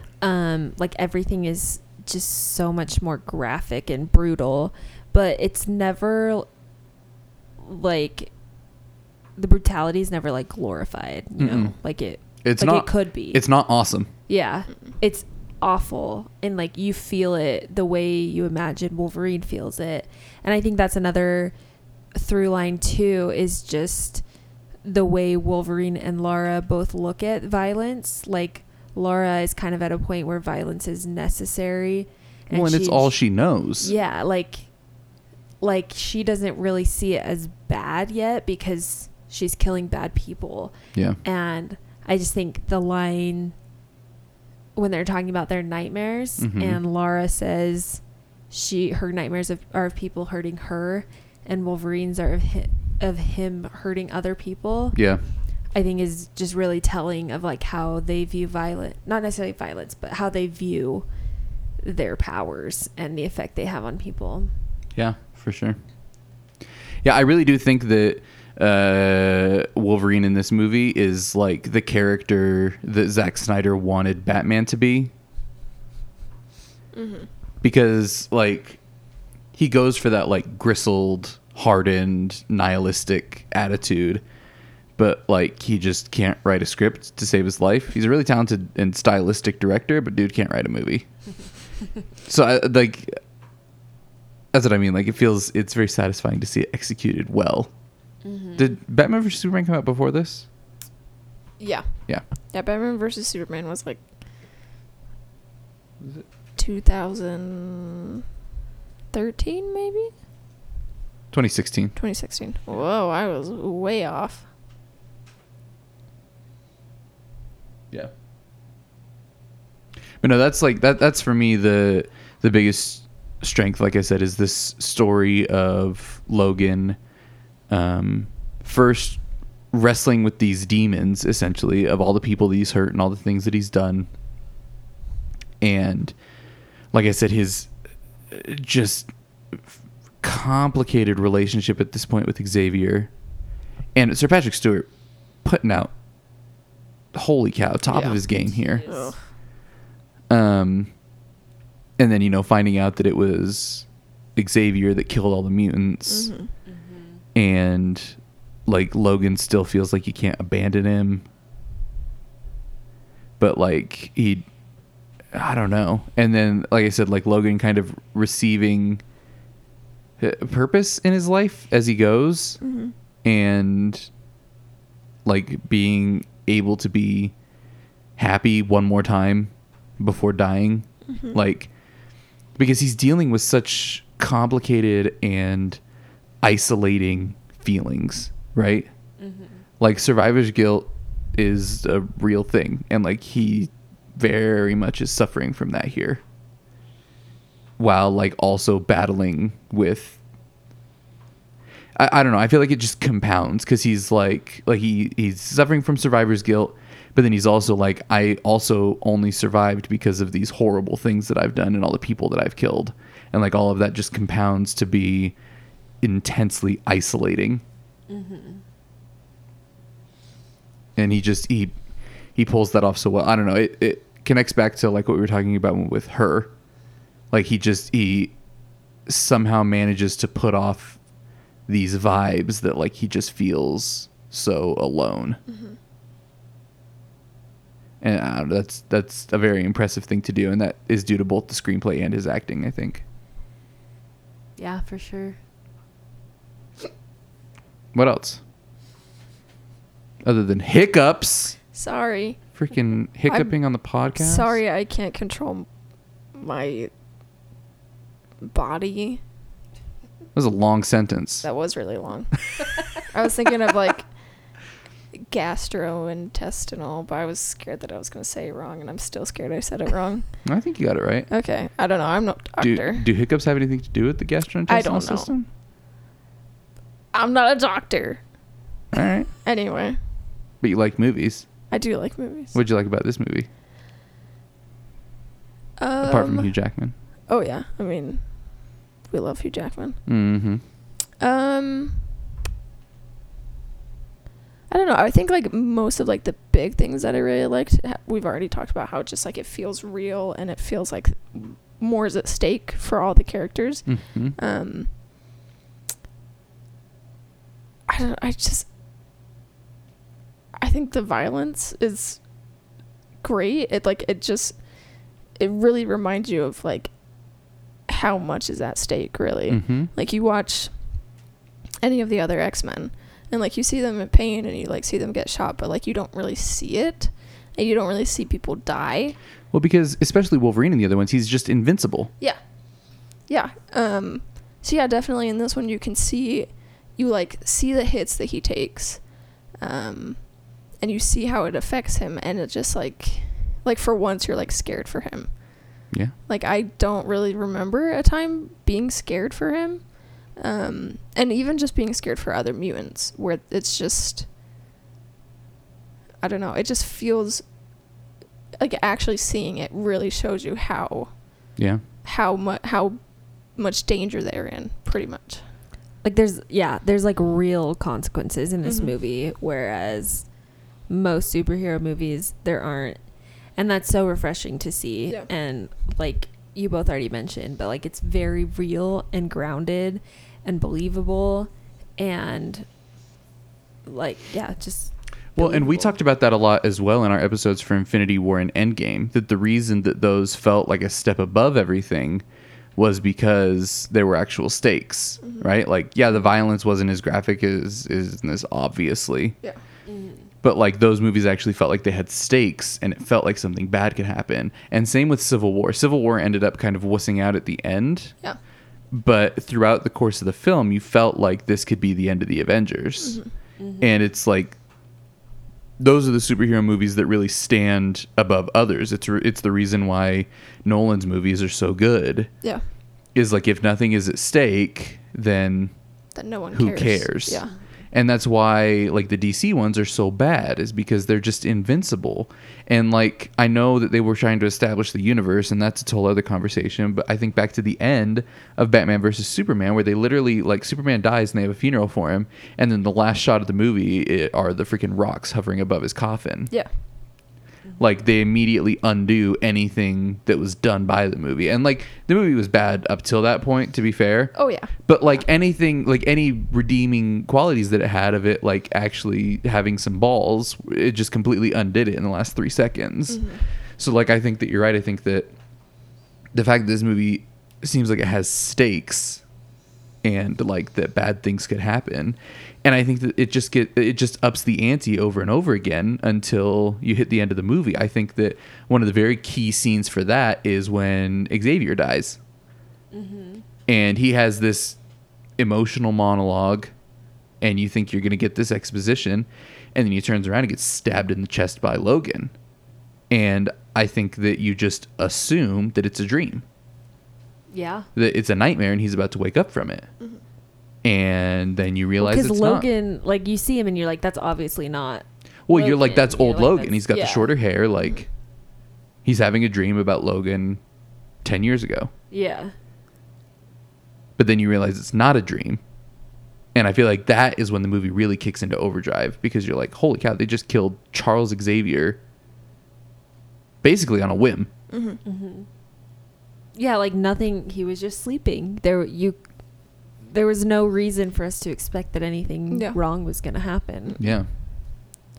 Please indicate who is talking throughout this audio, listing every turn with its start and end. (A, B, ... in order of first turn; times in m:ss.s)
0:00.2-0:06.5 A
0:07.6-0:08.4 A
0:09.4-0:13.4 A
0:11.4-0:14.1 B
0:14.3-0:21.6 A
0:22.1-0:43.6 A
0:32.5-0:33.9 B
0:40.9-0:41.2 B
0:44.8-1:01.2 A
0:46.4-0:46.8 B
0:54.9-0:55.2 B
1:01.8-1:04.5 A
1:05.0-1:05.8 B
1:07.0-1:15.1 B
1:16.9-1:17.3 C
1:17.6-1:18.8 B
1:19.6-1:24.2 B
1:25.0-1:31.5 B
1:32.2-1:33.2 B
1:34.5-1:37.7 B
1:38.2-1:38.7 A
1:38.6-1:40.5 B
1:41.6-1:44.1 C
1:46.0-1:46.2 B
1:46.6-1:48.2 C
1:49.1-1:50.1 C
1:51.3-1:52.0 B
1:52.0-1:54.5 C
2:00.2-2:07.0 B
2:07.7-2:14.1 B
2:15.6-2:16.2 B
2:16.9-2:17.7 B
2:18.3-2:19.6 B
2:20.2-2:23.1 B
2:23.9-2:25.9 B
2:27.1-2:29.0 B
2:27.9-2:28.2 C
2:28.5-2:29.2 A
2:28.8-2:29.3 C
2:30.3-2:31.0 B
2:32.0-2:36.4 B
2:36.1-2:36.5 C
2:36.6-2:37.2 A
2:37.4-2:41.2 B
2:43.4-2:44.4 B
2:45.3-2:49.0 B
2:50.2-2:52.6 B
2:52.6-2:52.9 C
2:53.2-2:54.1 B
2:55.2-2:57.4 B
2:58.2-3:01.7 B
3:01.1-3:01.4 C
3:02.5-3:05.8 B
3:06.4-3:08.9 B
3:09.2-3:09.6 A
3:09.8-3:16.2 B
3:17.8-3:20.2 B
3:22.0-3:35.4 B
3:36.0-3:37.6 B
3:38.1-3:38.6 A
3:41.0-3:41.8 B
3:42.4-3:46.5 B
3:47.3-3:48.4 B
3:49.1-3:51.0 B
3:51.7-3:55.4 B
3:55.5-3:55.8 C
3:58.0-4:03.0 B
4:04.6-4:05.4 A
4:07.9-4:08.4 B
4:10.2-4:11.6 B
4:11.7-4:12.4 C
4:12.6-4:14.6 B
4:13.3-4:15.7 C
4:16.3-4:16.9 C
4:18.4-4:19.2 C
4:20.3-4:21.5 B
4:21.4-4:24.1 C
4:25.1-4:30.5 C
4:30.4-4:31.3 B
4:31.3-4:33.1 C
4:32.6-4:35.5 B
4:34.7-4:35.3 C
4:37.1-4:38.2 C
4:38.9-4:39.3 B
4:39.4-4:40.0 C
4:40.6-4:41.5 B
4:41.7-4:42.6 C
4:42.5-4:43.5 B
4:45.8-4:46.6 C
4:46.0-4:46.9 B
4:47.3-4:50.0 C
4:50.1-4:50.6 B
4:51.2-4:52.1 C
4:54.7-5:05.0 C
5:03.9-5:04.4 B
5:07.9-5:08.7 C
5:10.6-5:12.6 C
5:13.2-5:21.1 C
5:19.5-5:19.9 B
5:21.8-5:29.2 C
5:29.5-5:32.1 B
5:32.2-5:54.3 C
5:56.2-5:57.4 C
5:58.6-6:05.5 C
6:01.6-6:01.8 B
6:06.0-6:22.7 A
6:08.6-6:09.0 C
6:23.9-6:25.9 A
6:25.4-6:32.2 B
6:32.8-6:39.4 B
6:35.2-6:35.5 C
6:39.9-6:40.3 A
6:40.4-6:48.2 B
6:48.9-6:53.3 B
6:53.0-6:53.3 C
6:53.6-6:53.9 A
6:53.8-6:54.6 B
6:55.8-7:02.3 B
7:03.1-7:05.7 B
7:06.2-7:07.5 C
7:06.5-7:26.5 B
7:27.8-7:45.3 B
7:34.3-7:34.7 C
7:43.1-7:43.4 C
7:46.3-7:49.2 B
7:50.0-8:02.2 B
8:02.9-8:03.4 A
8:03.7-8:04.8 B
8:05.4-8:06.7 B
8:07.4-8:12.3 B
8:13.1-8:16.4 B
8:17.5-8:17.9 A
8:18.0-8:19.9 B
8:20.8-8:22.7 B
8:22.0-8:27.3 A
8:25.5-8:28.1 B
8:29.0-8:30.6 B
8:31.2-8:31.9 B
8:32.1-8:32.5 A
8:34.2-8:35.6 B
8:36.6-8:42.0 B
8:43.6-8:44.5 B
8:44.7-8:45.0 C
8:45.0-8:45.5 A
8:46.6-8:54.0 A
8:52.5-8:52.8 C
8:54.0-8:54.3 B